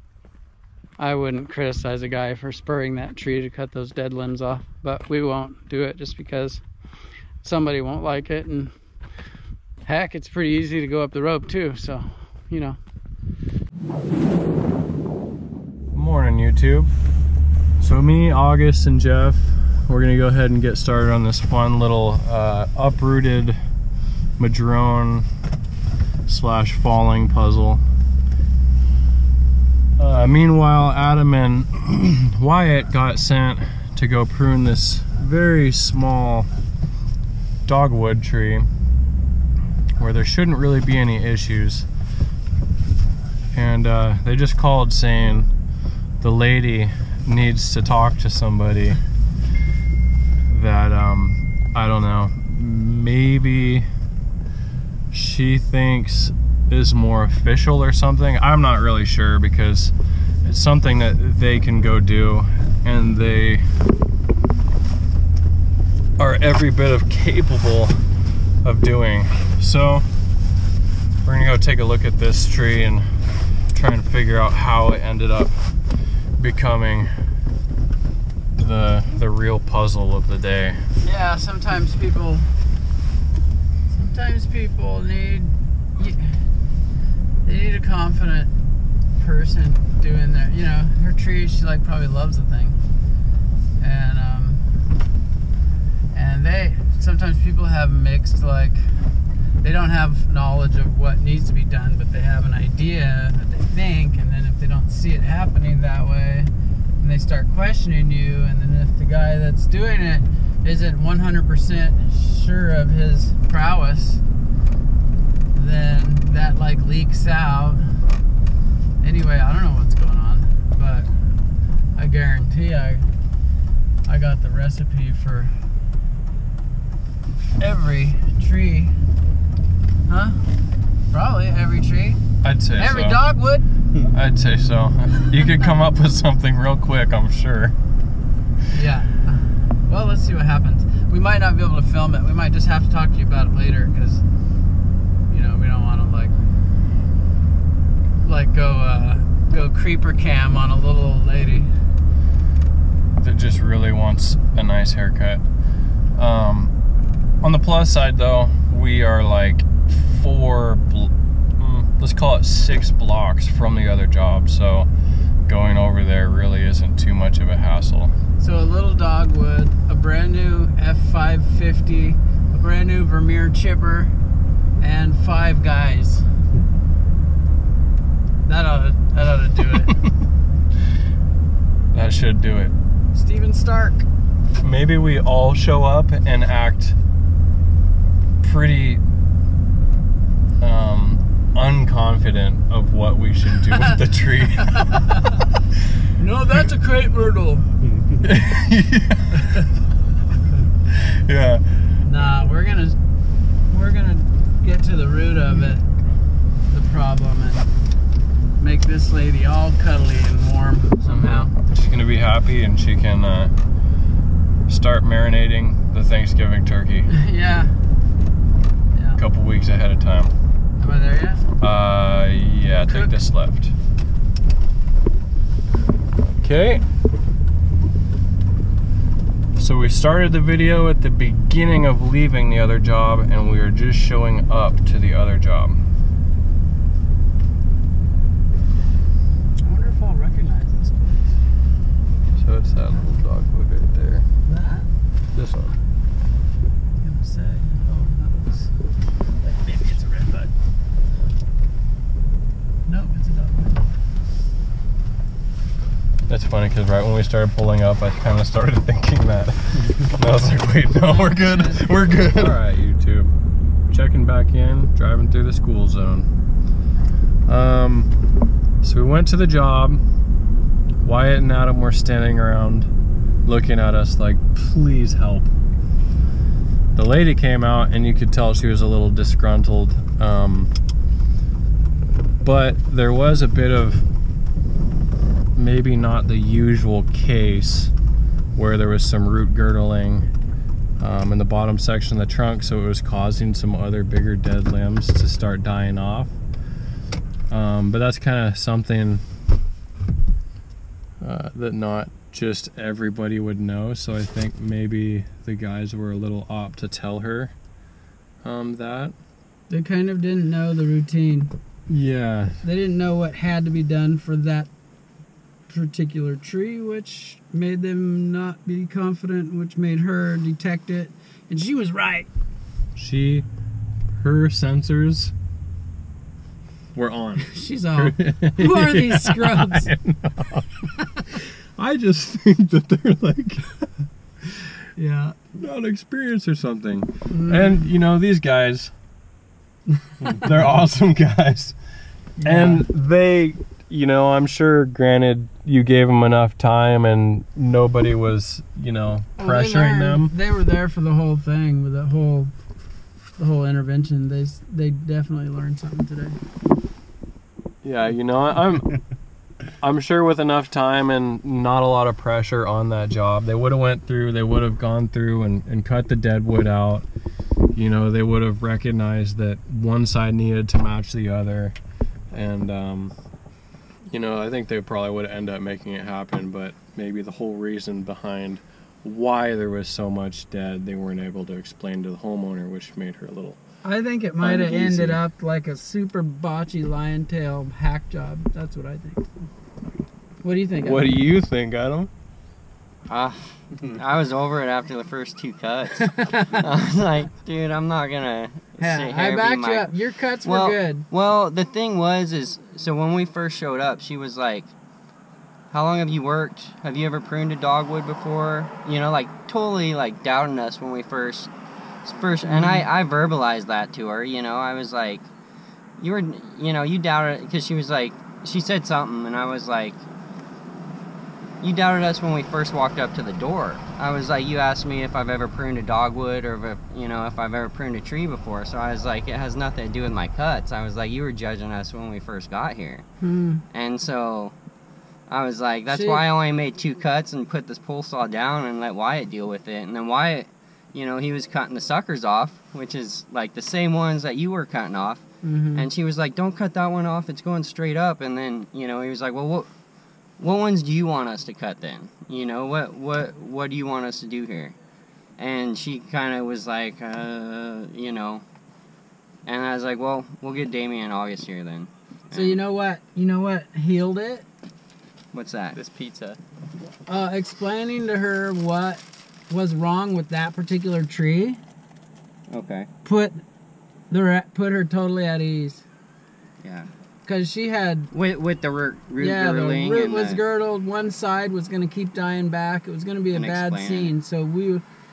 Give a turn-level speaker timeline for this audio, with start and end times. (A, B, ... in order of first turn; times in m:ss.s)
0:01.0-0:06.6 A
0:07.4-0:08.7 A
0:09.8-0:12.8 A
0:15.9-0:16.9 B
0:17.8-0:23.6 B
0:24.4-0:25.3 B
0:26.3-0:27.8 B
0:30.0-0:36.5 B
0:37.6-0:38.7 B
0:40.0-0:41.9 B
0:43.5-0:45.5 B
0:46.2-0:49.0 B
0:50.5-0:53.9 B
0:55.1-1:03.7 B
1:06.2-1:08.0 B
1:08.6-1:10.1 B
1:11.2-1:13.0 B
1:13.7-1:15.7 B
1:16.4-1:17.1 B
1:18.6-1:20.8 B
1:21.0-1:22.5 A
1:23.9-1:26.4 A
1:27.4-1:28.5 A
1:29.2-1:32.8 A
1:33.8-1:34.6 A
1:36.1-1:38.8 A
1:39.6-1:54.2 A
1:55.5-1:58.0 A
1:59.0-2:01.1 A
2:01.9-2:03.1 A
2:04.0-2:05.6 A
2:07.6-2:08.9 A
2:10.1-2:10.4 A
2:11.1-2:12.2 A
2:12.4-2:13.2 B
2:12.8-2:13.7 A
2:14.0-2:17.8 B
2:18.7-2:24.2 A
2:25.3-2:26.4 A
2:28.2-2:31.7 A
2:33.2-2:35.4 B
2:36.1-2:36.7 B
2:37.4-2:44.9 B
2:45.5-2:48.1 B
2:48.4-2:54.1 A
2:54.8-2:56.2 A
2:58.4-3:00.0 A
3:01.9-3:02.7 B
3:03.1-3:04.1 A
3:04.6-3:07.0 B
3:08.4-3:09.0 B
3:10.6-3:15.0 B
3:13.7-3:14.0 A
3:14.7-3:15.2 A
3:16.1-3:17.7 A
3:18.2-3:19.7 B
3:20.9-3:22.0 B
3:22.0-3:23.0 A
3:23.7-3:25.8 A
3:26.7-3:27.7 A
3:28.6-3:31.5 A
3:31.0-3:33.5 B
3:34.7-3:37.1 B
3:37.1-3:37.7 A
3:38.9-3:39.2 A
3:39.2-3:40.3 B
3:40.8-3:41.5 A
3:41.6-3:43.7 B
3:42.9-3:43.2 A
3:46.4-3:46.8 B
3:49.6-3:55.8 B
3:59.6-4:01.4 A
4:02.4-4:04.2 B
4:04.4-4:04.9 A
4:05.3-4:05.8 B
4:07.0-4:08.7 A
4:09.4-4:10.5 A
4:12.8-4:13.8 A
4:16.3-4:23.3 B
4:21.0-4:22.5 A
4:23.9-4:26.3 B
4:27.4-4:28.1 B
4:28.8-4:30.0 B
4:31.0-4:32.9 B
4:33.4-4:35.5 B
4:36.9-4:40.7 B
4:42.4-4:44.0 B
4:45.5-4:47.9 B
4:48.6-4:50.3 B
4:51.0-4:56.3 B
4:57.5-4:59.2 B
5:01.2-5:07.5 B
5:08.4-5:09.1 B
5:09.7-5:11.5 A
5:11.9-5:12.6 B
5:12.6-5:14.7 A
5:15.7-5:22.3 A
5:23.0-5:23.4 B
5:24.2-5:25.3 B
5:26.9-5:34.0 B
5:27.5-5:29.9 A
5:35.0-5:35.4 A
5:35.5-5:38.9 B
5:37.3-5:37.7 A
5:40.2-5:41.8 B
5:42.4-5:42.8 A
5:42.4-5:50.3 B
5:49.4-5:52.5 A
5:53.4-5:56.4 A
5:57.8-5:59.0 B
5:59.8-6:07.0 B
6:07.7-6:11.8 B
6:12.3-6:13.1 B
6:14.1-6:23.6 B
6:23.8-6:29.2 A
6:24.4-6:25.2 B
6:30.4-6:31.1 A
6:30.8-6:32.1 B
6:33.1-6:44.7 C
6:36.1-6:36.6 A
6:38.8-6:41.0 A
6:45.7-6:51.5 C
6:52.0-6:55.3 C
6:52.4-6:52.9 A
6:56.0-7:00.0 C
7:01.6-7:13.0 C
7:13.2-7:13.6 A
7:13.7-7:14.5 C
7:15.3-7:29.7 C
7:15.9-7:16.2 A
7:25.4-7:25.9 A
7:30.4-7:34.7 C
7:35.4-7:38.4 C
7:39.4-7:42.6 C
7:42.3-7:44.4 A
7:45.3-7:46.3 C
7:47.0-7:51.6 A
7:52.5-7:52.9 C
7:53.0-7:53.4 A
7:54.1-7:55.8 A
7:56.6-7:56.9 C
7:57.2-7:58.1 A
7:58.1-8:00.4 C
7:59.2-8:04.8 A
8:03.3-8:04.1 C